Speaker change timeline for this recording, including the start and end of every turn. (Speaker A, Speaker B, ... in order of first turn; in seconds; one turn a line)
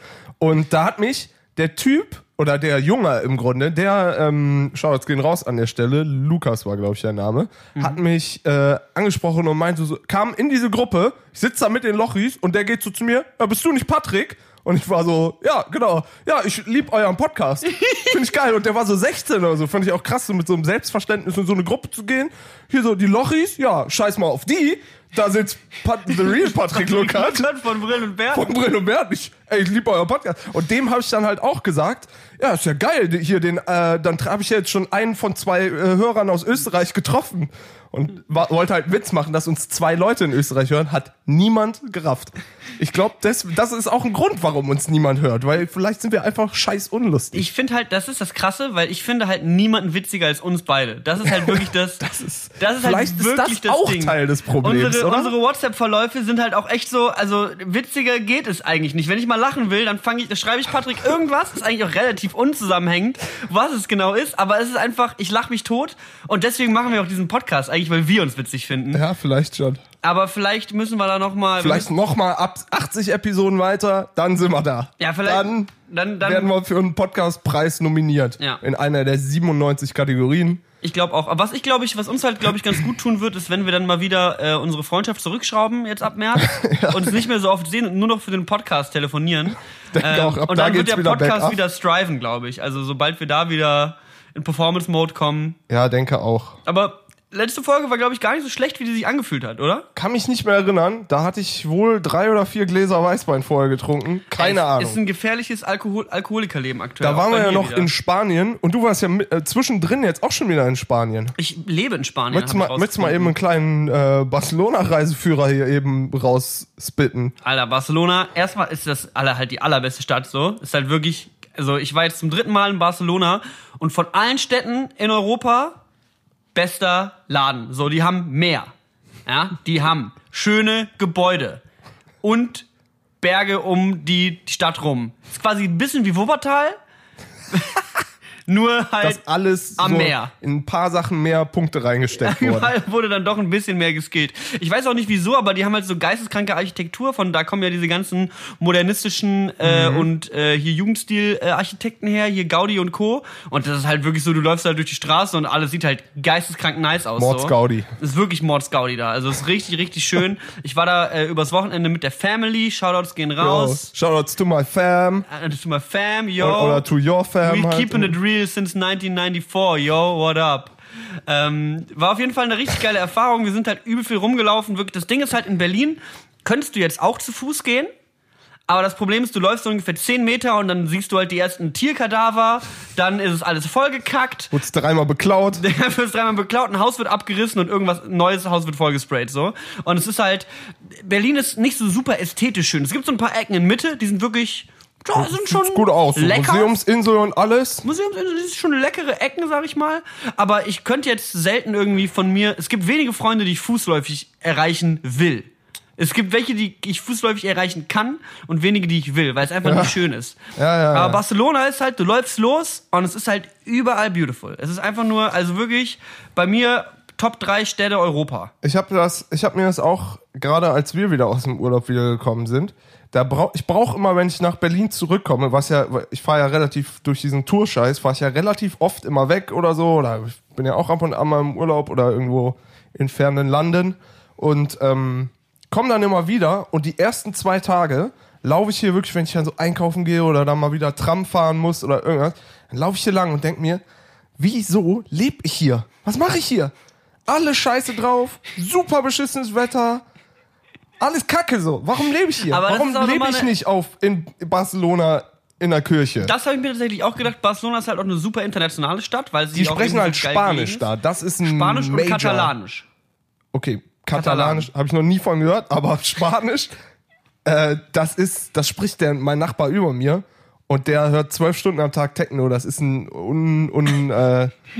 Speaker A: 0.4-27.5
Speaker B: 17.7-18.2
Speaker B: 26.3-28.5
Speaker A: 28.3-47.5
Speaker B: 47.3-52.0
Speaker A: 51.2-55.3
Speaker B: 52.6-69.0
Speaker A: 68.9-69.8
Speaker B: 70.0-71.9
Speaker A: 71.6-75.7
Speaker B: 75.0-76.5
Speaker A: 76.2-80.6
Speaker B: 80.8-95.6
Speaker A: 86.4-87.2
Speaker A: 89.9-91.6
Speaker A: 95.7-96.6
Speaker B: 96.6-99.9
Speaker A: 99.9-105.0
Speaker B: 104.4-107.9
Speaker A: 107.0-111.3
Speaker B: 111.4-113.3
Speaker A: 112.3-117.3
Speaker B: 117.4-125.8
Speaker B: 126.5-128.7
Speaker B: 129.2-131.6
Speaker B: 132.2-132.7
Speaker B: 133.2-136.8
Speaker B: 137.5-139.2
Speaker A: 139.0-142.7
Speaker B: 139.8-140.3
Speaker B: 142.1-163.9
Speaker A: 149.6-150.1
Speaker A: 157.2-157.9
Speaker A: 163.4-165.2
Speaker B: 165.3-166.8
Speaker A: 166.4-168.1
Speaker B: 167.4-170.7
Speaker B: 171.3-177.9
Speaker B: 178.7-184.5
Speaker A: 184.5-185.6
Speaker B: 185.6-196.8
Speaker A: 195.2-197.8
Speaker B: 197.8-210.3
Speaker A: 209.6-209.9
Speaker A: 210.6-211.2
Speaker B: 210.9-218.5
Speaker A: 218.6-243.8
Speaker A: 244.4-246.7
Speaker A: 247.3-250.0
Speaker A: 251.0-256.3
Speaker B: 252.4-253.5
Speaker B: 256.2-260.9
Speaker A: 259.5-262.5
Speaker B: 261.4-262.8
Speaker A: 263.5-266.7
Speaker B: 264.1-264.7
Speaker A: 267.4-274.5